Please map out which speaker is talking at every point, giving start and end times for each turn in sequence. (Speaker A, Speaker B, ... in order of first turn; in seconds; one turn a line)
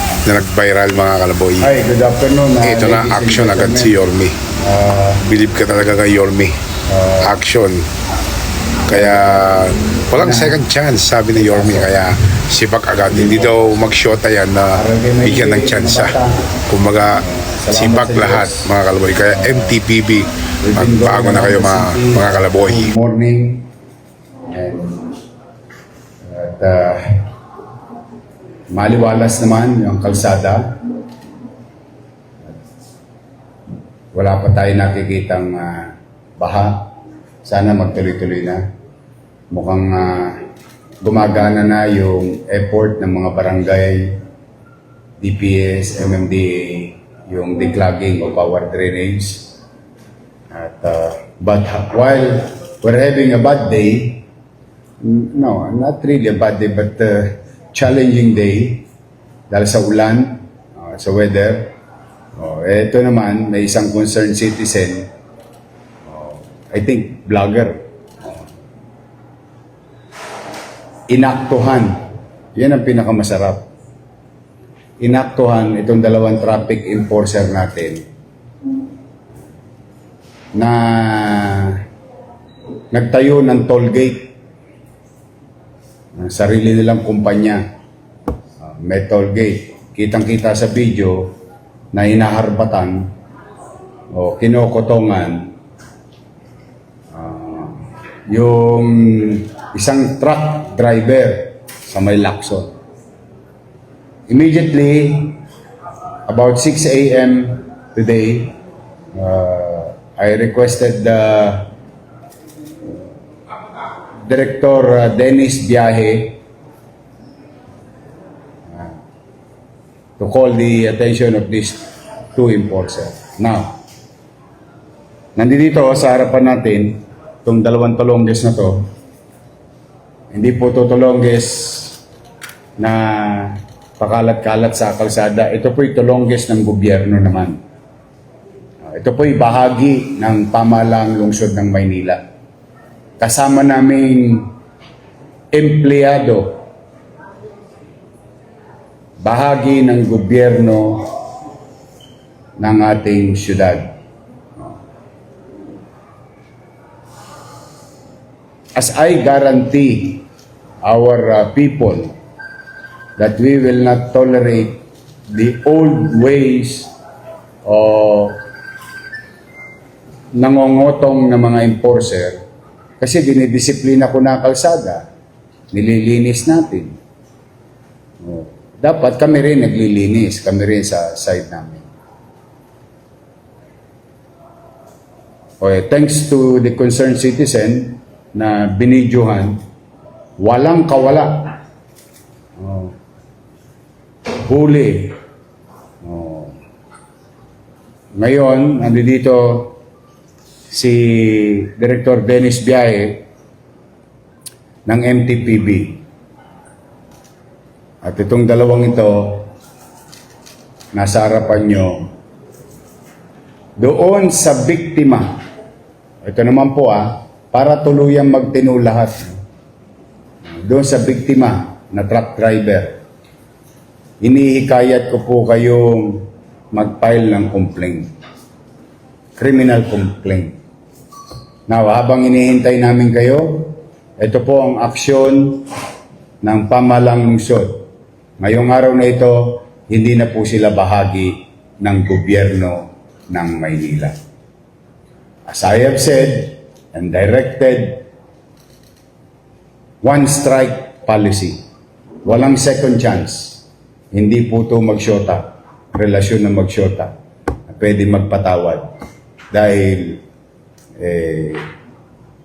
Speaker A: 0.2-1.7
Speaker B: 1.6-4.0
Speaker A: 2.6-4.4
Speaker B: 4.6-5.3
Speaker A: 5.2-6.6
Speaker B: 6.9-7.4
Speaker A: 7.2-7.9
Speaker A: 8.9-16.2
Speaker B: 8.9-10.6
Speaker B: 11.3-12.0
Speaker B: 13.1-13.6
Speaker B: 14.7-16.4
Speaker A: 16.7-22.9
Speaker B: 17.2-19.8
Speaker B: 20.6-23.7
Speaker B: 24.5-25.1
Speaker B: 26.3-27.3
Speaker B: 28.7-30.8
Speaker B: 34.1-36.9
Speaker B: 37.4-38.6
Speaker B: 39.5-40.4
Speaker B: 41.0-44.2
Speaker B: 45.2-49.6
Speaker B: 50.5-54.2
Speaker B: 55.0-58.9
Speaker B: 59.5-61.7
Speaker B: 62.4-65.1
Speaker B: 66.1-68.5
Speaker B: 71.1-72.0
Speaker B: 72.5-73.7
Speaker B: 75.0-78.1
Speaker B: 80.5-81.8
Speaker B: 82.9-84.3
Speaker B: 86.2-87.6
Speaker B: 88.6-91.3
Speaker B: 91.9-93.1
Speaker B: 94.1-95.5
Speaker B: 97.1-102.7
Speaker B: 104.3-105.4
Speaker B: 106.3-108.6
Speaker B: 109.2-111.7
Speaker B: 114.2-116.4
Speaker B: 120.2-123.8
Speaker B: 125.4-128.9
Speaker B: 130.3-132.0
Speaker B: 132.8-137.6
Speaker B: 138.9-142.2
Speaker B: 143.2-144.5
Speaker B: 145.5-146.6
Speaker B: 149.2-151.1
Speaker B: 152.6-154.0
Speaker B: 158.8-160.3
Speaker B: 160.8-162.1
Speaker B: 163.2-166.9
Speaker B: 167.7-168.4
Speaker B: 170.4-172.4
Speaker B: 173.0-175.1
Speaker B: 175.7-176.9
Speaker B: 178.2-181.9
Speaker B: 185.6-189.6
Speaker B: 190.4-191.5
Speaker B: 192.6-192.9
Speaker B: 194.4-195.2
Speaker B: 196.0-196.6
Speaker B: 198.2-199.8
Speaker B: 200.7-203.2
Speaker B: 204.9-206.0
Speaker B: 208.0-209.5
Speaker B: 210.9-212.1
Speaker B: 213.8-215.4
Speaker B: 216.2-219.4
Speaker B: 220.5-223.0
Speaker B: 224.2-228.1
Speaker B: 229.4-230.6
Speaker B: 231.7-235.7
Speaker B: 236.4-237.8
Speaker B: 238.4-244.2
Speaker B: 245.5-248.1
Speaker B: 250.0-251.6
Speaker B: 252.2-257.1
Speaker B: 257.7-258.9
Speaker B: 259.5-260.2
Speaker B: 261.0-261.7